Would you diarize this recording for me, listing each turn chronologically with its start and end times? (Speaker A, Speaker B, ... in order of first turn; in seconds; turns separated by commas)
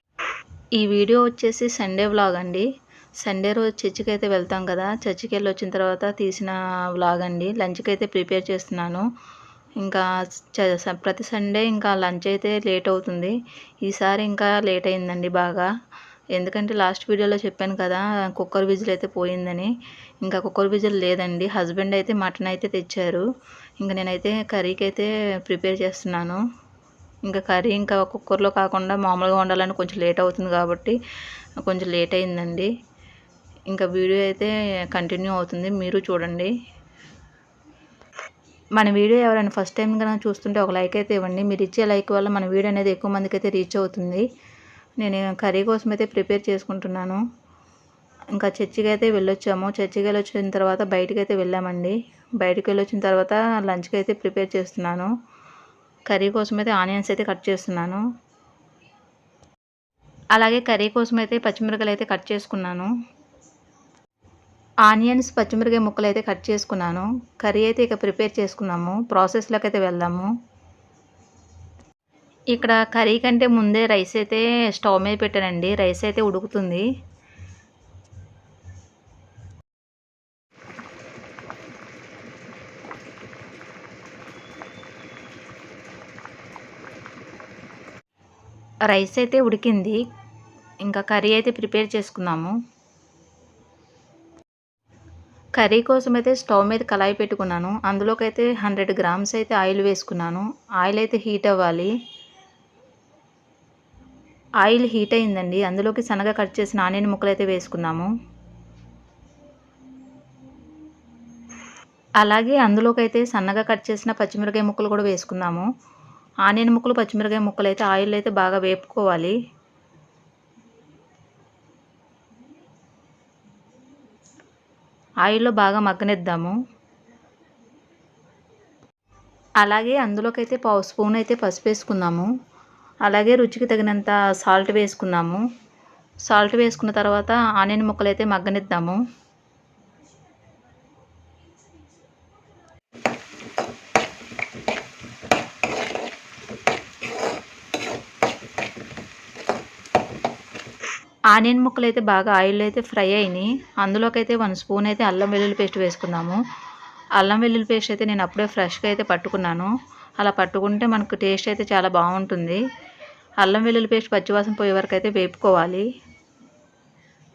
Speaker A: 0.8-2.7, Speaker A: 3.2-9.1, Speaker A: 9.8-15.7, Speaker A: 16.3-19.7, Speaker A: 20.2-23.2, Speaker A: 23.8-26.4, Speaker A: 27.3-31.0, Speaker A: 31.6-32.7, Speaker A: 33.7-36.5, Speaker A: 38.8-44.3, Speaker A: 45.0-47.2, Speaker A: 48.3-55.1, Speaker A: 56.1-58.0, Speaker A: 60.3-62.9, Speaker A: 64.8-70.3, Speaker A: 72.5-76.8, Speaker A: 88.9-90.0, Speaker A: 90.8-92.5, Speaker A: 95.6-101.9, Speaker A: 104.6-108.1, Speaker A: 112.2-115.7, Speaker A: 116.5-119.4, Speaker A: 125.2-126.6, Speaker A: 129.6-132.3, Speaker A: 133.1-135.4, Speaker A: 136.3-139.0, Speaker A: 151.3-156.4, Speaker A: 157.2-162.6, Speaker A: 163.4-165.9